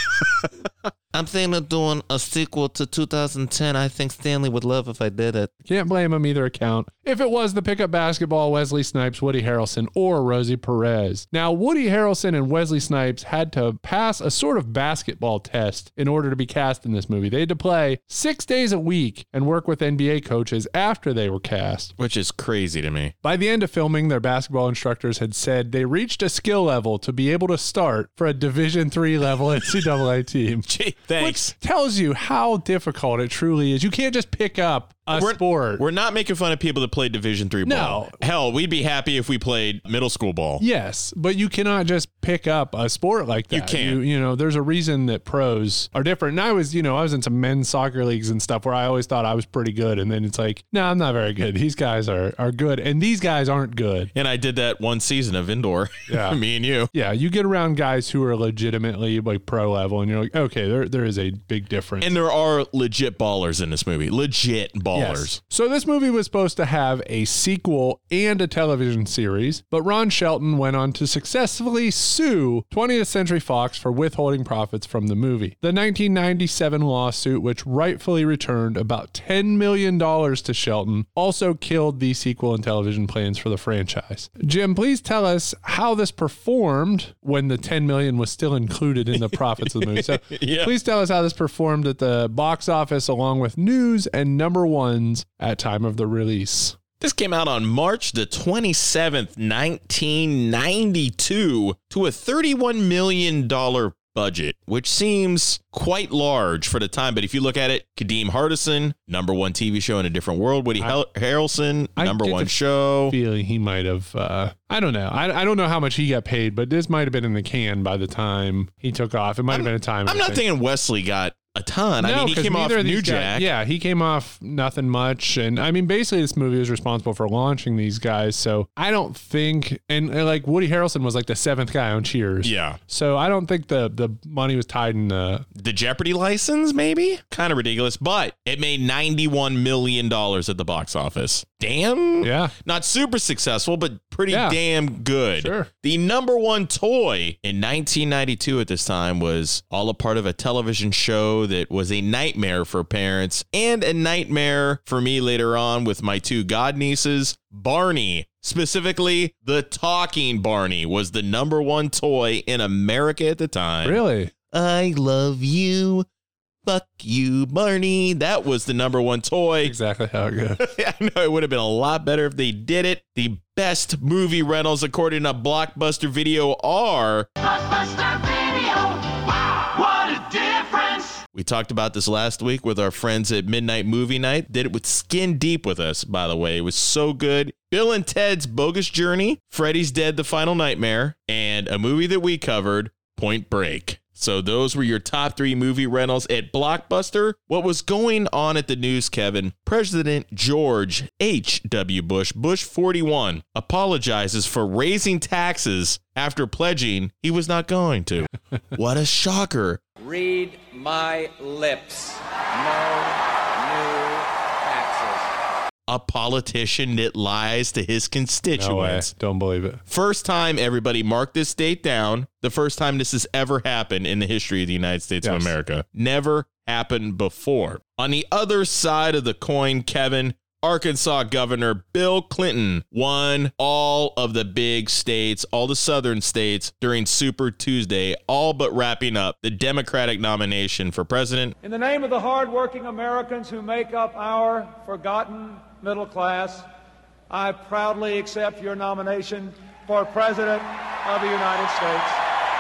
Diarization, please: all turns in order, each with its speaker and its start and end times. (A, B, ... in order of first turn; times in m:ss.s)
0:01.1-0:05.5 A
0:05.6-0:21.9 B
0:22.0-0:23.1 C
0:23.2-0:35.8 B
0:30.7-0:31.5 C
0:35.1-0:40.6 C
0:37.6-0:38.2 B
0:40.6-0:54.1 B
0:43.5-0:44.0 C
0:54.1-0:56.9 C
0:56.1-0:56.4 B
0:56.9-1:02.1 B
1:02.0-1:05.4 C
1:04.9-1:36.8 B
1:29.2-1:30.7 C
1:37.0-1:53.2 C
1:52.0-2:00.4 B
1:59.5-2:03.5 C
2:02.0-2:15.5 B
2:12.4-2:12.8 C
2:15.6-2:44.0 C
2:22.2-2:22.5 B
2:24.3-2:24.6 B
2:25.4-2:25.7 B
2:43.8-2:44.3 B
2:44.5-2:46.1 C
2:44.6-2:45.4 A
2:46.7-2:49.7 C
2:49.6-2:50.7 B
2:50.6-2:58.3 C
2:59.9-3:00.2 C
3:01.3-3:29.8 C
3:30.0-3:35.2 D
3:35.9-3:39.1 C
3:38.6-3:39.8 B
3:39.9-4:01.6 C
3:45.2-3:45.5 B
4:01.6-4:06.7 E
4:07.3-4:12.2 E